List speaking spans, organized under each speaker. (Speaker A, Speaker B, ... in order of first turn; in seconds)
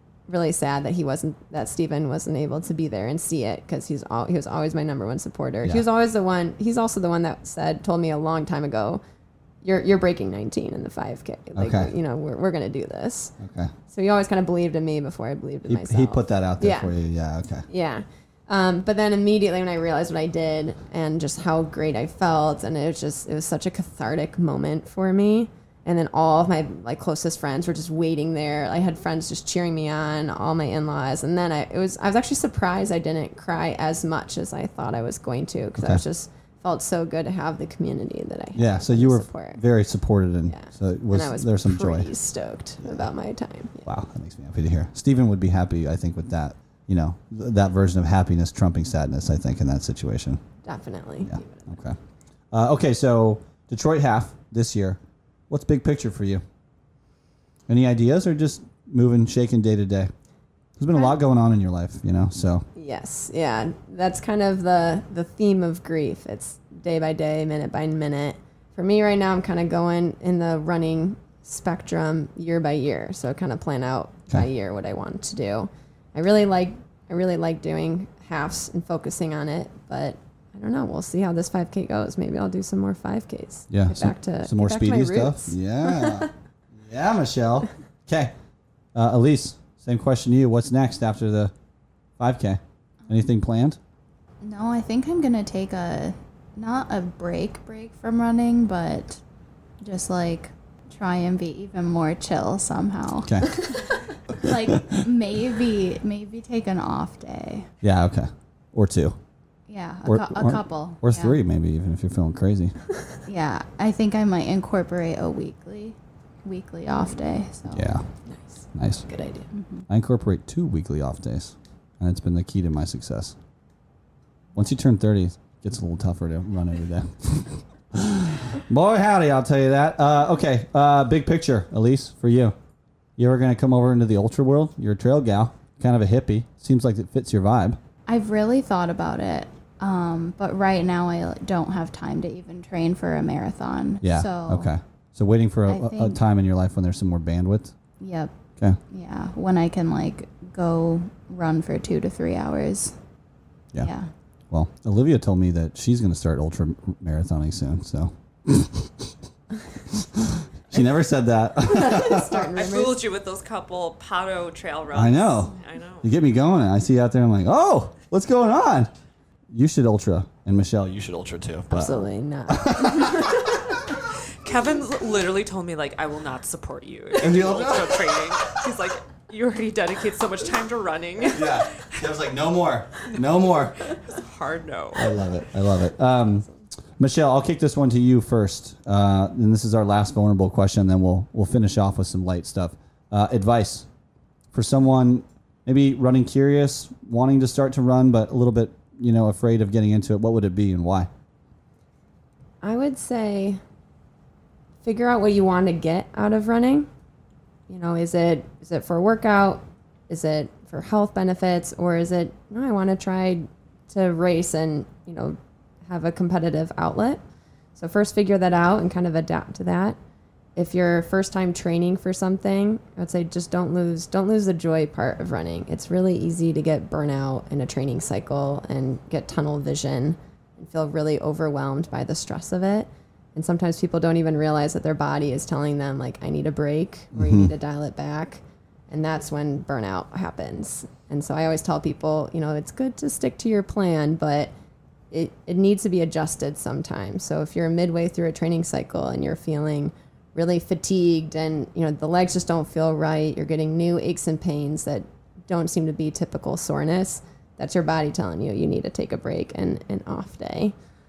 Speaker A: 0.3-9.0, 9.6-13.3, 13.9-16.9, 17.7-39.6, 40.5-43.9, 50.6-51.8, 62.8-86.3, 118.2-119.5, 161.6-163.0, 171.7-173.6, 202.6-203.6, 204.8-206.9, 207.7-217.2, 217.8-220.0, 220.6-244.5, 245.1-260.7
Speaker B: 11.5-11.9, 13.4-13.7, 15.7-17.6, 38.5-42.1, 42.8-43.1, 43.8-50.4, 51.2-52.0, 52.5-55.0, 55.5-56.4, 57.7-60.1, 60.8-62.6, 83.7-88.3, 88.9-91.5, 92.2-93.8, 103.2-103.5, 104.3-105.0, 107.8-109.2, 110.0-112.7, 117.7-118.0, 118.7-119.0, 119.9-123.3, 124.5-132.5, 133.2-137.8, 144.0-147.7, 154.5-159.1, 159.9-162.5, 164.9-168.9, 169.5-173.5, 177.2-178.5, 181.2-183.9, 184.9-186.5, 187.0-193.9, 194.5-201.1, 237.1-237.5
Speaker C: 94.4-99.2, 99.8-107.7, 109.7-111.4, 113.3-117.9, 119.5-119.8, 138.1-144.7, 145.7-146.2, 148.0-148.3, 148.9-152.9, 153.8-154.1
Speaker D: 162.4-166.1, 174.4-182.0, 183.9-185.2